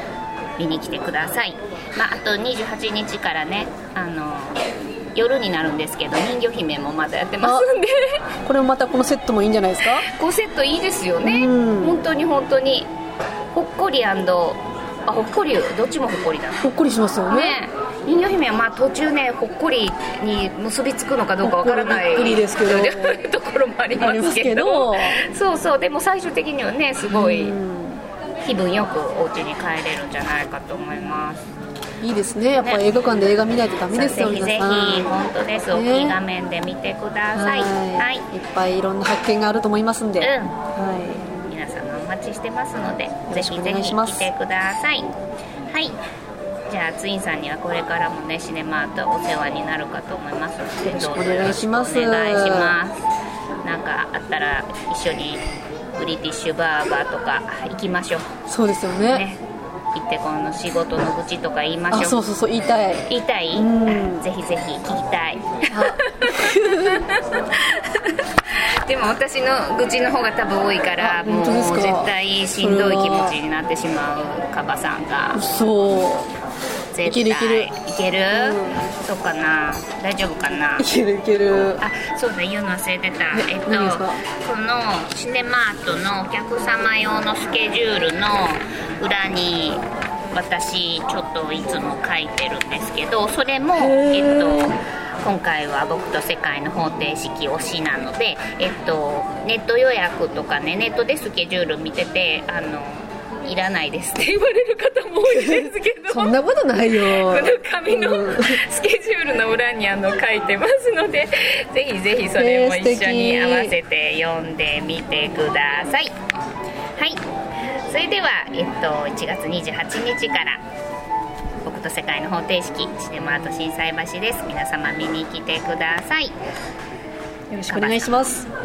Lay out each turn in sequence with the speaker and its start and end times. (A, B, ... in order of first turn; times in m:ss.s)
0:00.6-0:04.6 A
0:05.1-0:08.2 A
0:07.4-0:07.7 B
0:08.4-0:10.1 B
0:10.0-0:12.9 A
0:11.2-0:12.0 B
0:13.5-0:16.7 A
0:16.6-0:17.6 B
0:17.3-0:27.6 A
0:21.4-0:23.2 B
0:24.0-0:25.2 B
0:27.1-0:28.0 B
0:28.4-0:31.5 A
0:32.0-0:36.2 B
0:33.9-0:38.2 A
0:37.3-0:41.4 B
0:40.2-0:40.6 A
0:41.4-0:45.1 A
0:43.3-0:44.3 B
0:45.7-0:46.0 A
0:46.7-0:53.0 A
0:50.8-0:52.8 B
0:53.6-0:55.4 A
0:56.0-0:58.3 A
0:58.5-0:59.2 B
0:59.1-0:59.4 A
0:59.9-1:02.2 A
1:01.9-1:04.3 B
1:03.1-1:15.4 A
1:05.7-1:07.0 B
1:11.0-1:13.4 B
1:15.3-1:16.3 B
1:16.9-1:20.9 A
1:17.0-1:17.7 B
1:18.3-1:18.9 B
1:20.8-1:21.8 B
1:21.8-1:46.3 A
1:23.3-1:24.2 B
1:33.8-1:34.7 B
1:45.2-1:48.6 B
1:47.0-1:56.1 A
1:52.3-1:53.8 B
1:57.0-1:57.2 A
1:57.8-2:00.6 A
2:01.6-2:06.3 A
2:07.5-2:08.5 B
2:07.7-2:08.2 A